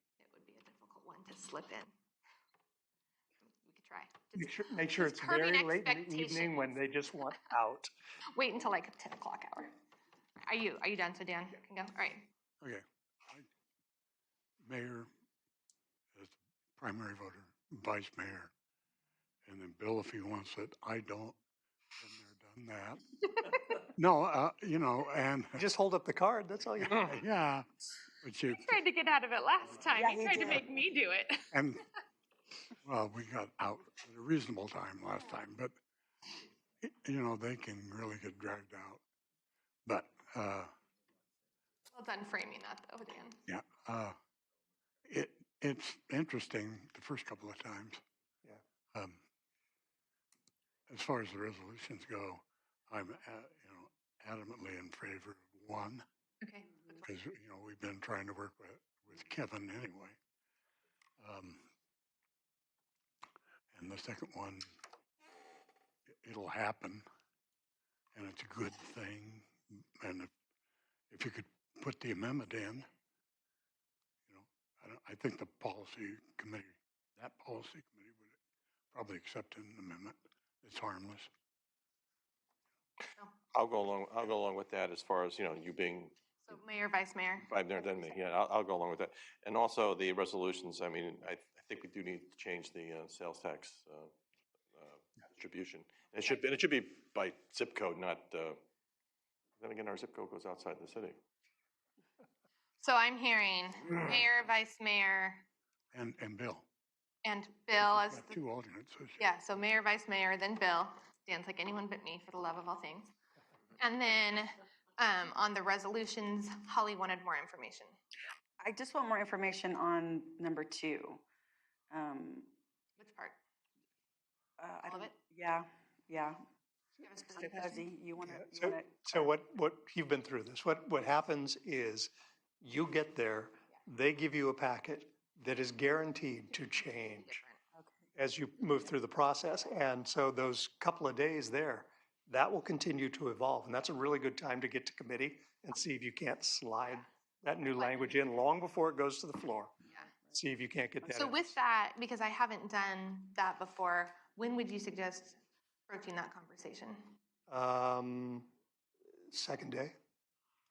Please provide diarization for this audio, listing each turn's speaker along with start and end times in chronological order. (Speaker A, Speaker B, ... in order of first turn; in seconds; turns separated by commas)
Speaker A: 0.2-1.9, Speaker A: 3.4-6.7, Speaker B: 4.3-7.9, Speaker A: 8.4-9.7, Speaker A: 10.4-12.3, Speaker C: 12.6-13.5, Speaker C: 14.6-15.1, Speaker C: 16.1-18.5, Speaker C: 19.5-21.4, Speaker C: 22.0-23.0, Speaker C: 23.9-25.6, Speaker B: 25.6-27.2, Speaker C: 26.8-27.7, Speaker C: 28.2-28.8, Speaker A: 28.5-31.5, Speaker B: 30.0-30.5, Speaker C: 31.5-31.8, Speaker C: 32.8-35.7, Speaker C: 36.8-39.0, Speaker C: 39.9-40.7, Speaker A: 41.9-43.4, Speaker C: 43.5-44.2, Speaker C: 45.1-48.0, Speaker C: 48.9-49.2, Speaker C: 50.9-56.0, Speaker A: 56.4-56.7, Speaker C: 57.0-60.2, Speaker C: 61.2-61.6, Speaker C: 63.7-64.7, Speaker C: 66.2-67.0, Speaker C: 68.2-70.3, Speaker C: 71.1-72.9, Speaker C: 74.3-78.3, Speaker C: 78.9-81.3, Speaker D: 83.5-86.1, Speaker A: 86.4-88.2, Speaker D: 87.5-94.1, Speaker D: 94.8-98.6, Speaker D: 99.6-101.2, Speaker A: 102.8-105.4, Speaker C: 105.9-106.7, Speaker A: 107.2-108.4, Speaker C: 107.8-109.2, Speaker A: 109.2-113.1, Speaker A: 113.8-118.0, Speaker E: 118.6-121.2, Speaker E: 121.9-122.5, Speaker A: 123.0-123.4, Speaker E: 124.6-126.4, Speaker A: 124.8-125.1, Speaker A: 127.0-127.9, Speaker E: 127.3-129.3, Speaker B: 128.3-137.4, Speaker A: 137.1-137.6, Speaker B: 138.2-149.7, Speaker A: 147.7-148.2, Speaker B: 150.3-151.6, Speaker E: 151.1-151.3, Speaker A: 151.1-157.2, Speaker B: 157.5-158.5, Speaker B: 159.3-159.9